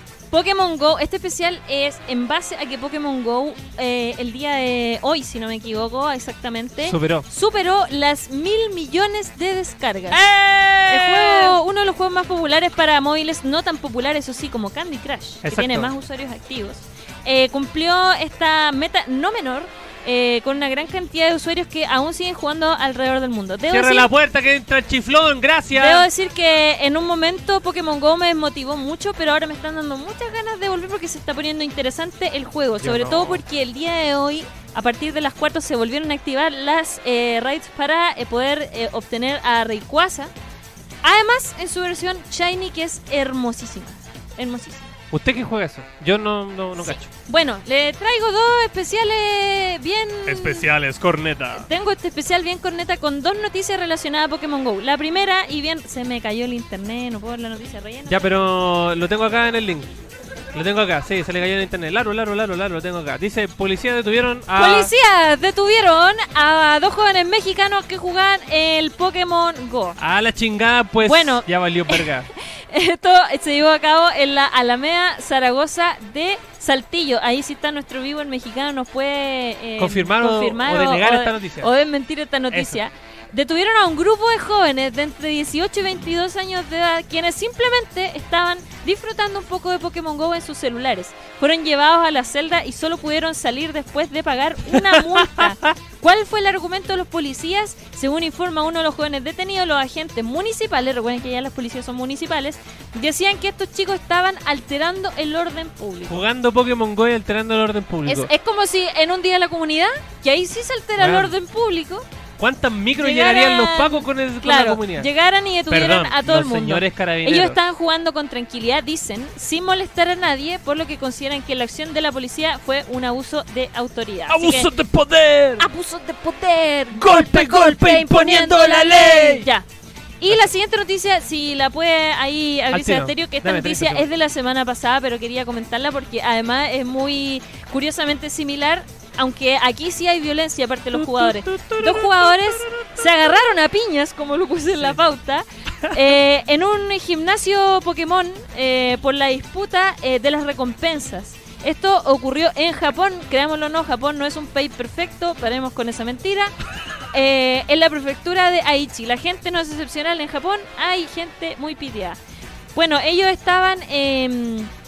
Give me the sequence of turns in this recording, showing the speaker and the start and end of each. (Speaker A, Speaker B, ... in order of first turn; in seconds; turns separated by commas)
Speaker A: 0.3-10.2, Speaker B: 6.8-7.2, Speaker B: 10.1-11.6, Speaker A: 10.8-24.1, Speaker B: 15.4-15.9, Speaker B: 23.7-26.1, Speaker A: 25.7-40.3, Speaker B: 32.8-33.4, Speaker A: 41.0-44.9, Speaker B: 45.1-47.1, Speaker A: 46.8-50.6, Speaker B: 50.2-51.7, Speaker A: 51.5-58.2, Speaker B: 58.1-59.9, Speaker B: 60.5-64.9, Speaker A: 64.5-70.0, Speaker B: 70.0-72.3, Speaker A: 71.0-106.2, Speaker B: 79.8-81.7, Speaker B: 82.5-82.8, Speaker B: 94.7-95.7, Speaker B: 106.1-108.3, Speaker A: 108.0-112.0, Speaker B: 111.0-111.3, Speaker B: 112.4-115.1, Speaker A: 113.0-124.7, Speaker B: 115.7-117.6, Speaker B: 124.3-125.7, Speaker A: 125.6-129.7, Speaker B: 126.9-129.5, Speaker A: 130.2-156.5, Speaker B: 132.7-134.1, Speaker B: 140.9-143.1, Speaker A: 157.1-162.2, Speaker A: 162.7-164.7